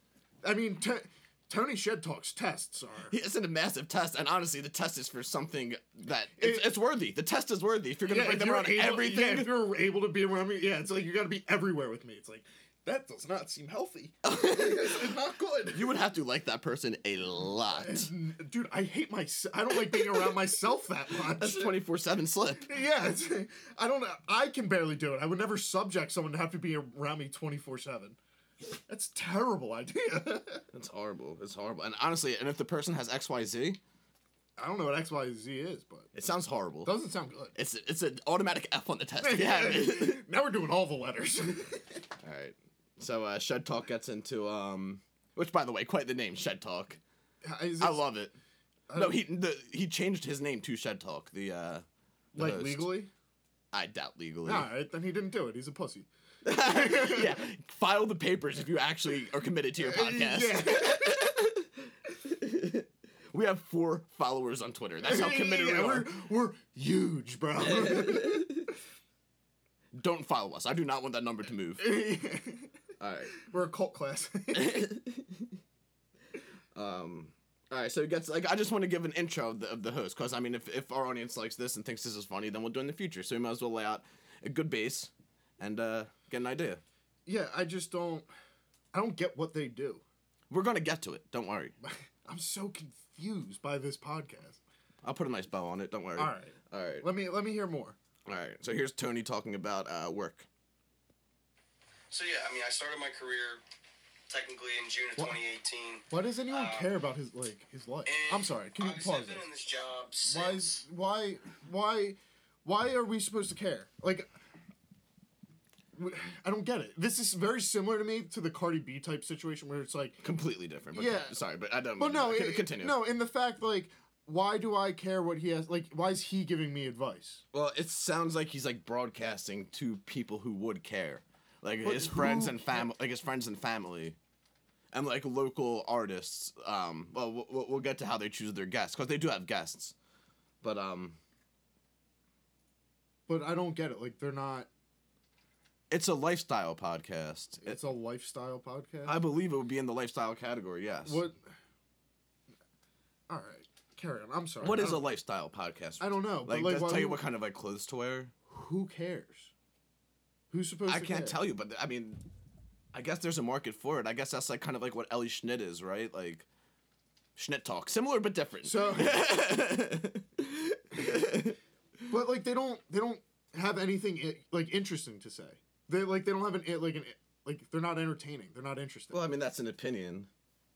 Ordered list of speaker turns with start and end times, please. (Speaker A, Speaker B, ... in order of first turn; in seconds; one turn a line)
Speaker A: 0.4-3.1
Speaker B: 3.1-9.6
Speaker A: 6.4-6.7
Speaker A: 8.1-15.9
Speaker B: 14.2-15.1
Speaker B: 15.7-18.1
Speaker A: 17.7-21.8
Speaker B: 19.7-20.4
Speaker B: 21.1-22.7
Speaker A: 22.6-28.2
Speaker A: 28.9-30.6
Speaker B: 30.7-33.8
Speaker A: 34.6-36.1
Speaker B: 36.1-36.9
Speaker A: 36.8-37.5
Speaker B: 37.5-40.2
Speaker A: 39.2-42.0
Speaker B: 42.2-47.0
Speaker A: 47.4-48.1
Speaker B: 47.8-48.3
Speaker A: 48.9-49.2
Speaker B: 48.9-52.9
Speaker A: 52.3-53.1
Speaker B: 53.7-54.7
Speaker A: 54.5-57.4
Speaker B: 56.4-61.7
Speaker A: 59.8-61.2
Speaker B: 62.2-66.1
Speaker A: 65.0-68.7
Speaker B: 67.6-68.7
Speaker B: 69.9-72.0
Speaker A: 71.8-72.7
Speaker B: 73.0-73.3
Speaker A: 73.4-74.8
Speaker B: 74.5-75.5
Speaker B: 76.7-86.8
Speaker A: 87.2-88.3
Speaker A: 88.9-90.0
Speaker B: 90.5-91.7
Speaker A: 91.8-94.6
Speaker B: 95.0-97.1
Speaker A: 96.2-98.0
Speaker B: 98.2-100.5
Speaker C: 102.1-103.6
Speaker C: 104.3-106.9
Speaker A: 106.1-109.5
Speaker C: 108.0-110.8
Speaker A: 110.2-114.3
Speaker A: 116.0-120.2
Speaker B: 120.2-123.0
Speaker A: 120.9-121.4
Speaker A: 122.0-127.4
Speaker B: 127.5-134.2
Speaker A: 131.8-132.9
Speaker B: 134.9-139.9
Speaker B: 140.6-141.2
Speaker A: 143.3-144.7
Speaker B: 145.9-147.8
Speaker A: 147.6-149.2
Speaker B: 149.0-151.2
Speaker A: 151.0-151.4
Speaker A: 153.3-155.1
Speaker B: 154.6-158.3
Speaker A: 156.0-157.2
Speaker A: 158.5-159.5
Speaker A: 160.5-161.4
Speaker B: 160.9-162.2
Speaker B: 162.9-166.4
Speaker B: 167.3-171.6
Speaker A: 168.6-169.3
Speaker A: 172.1-179.2
Speaker B: 179.1-180.3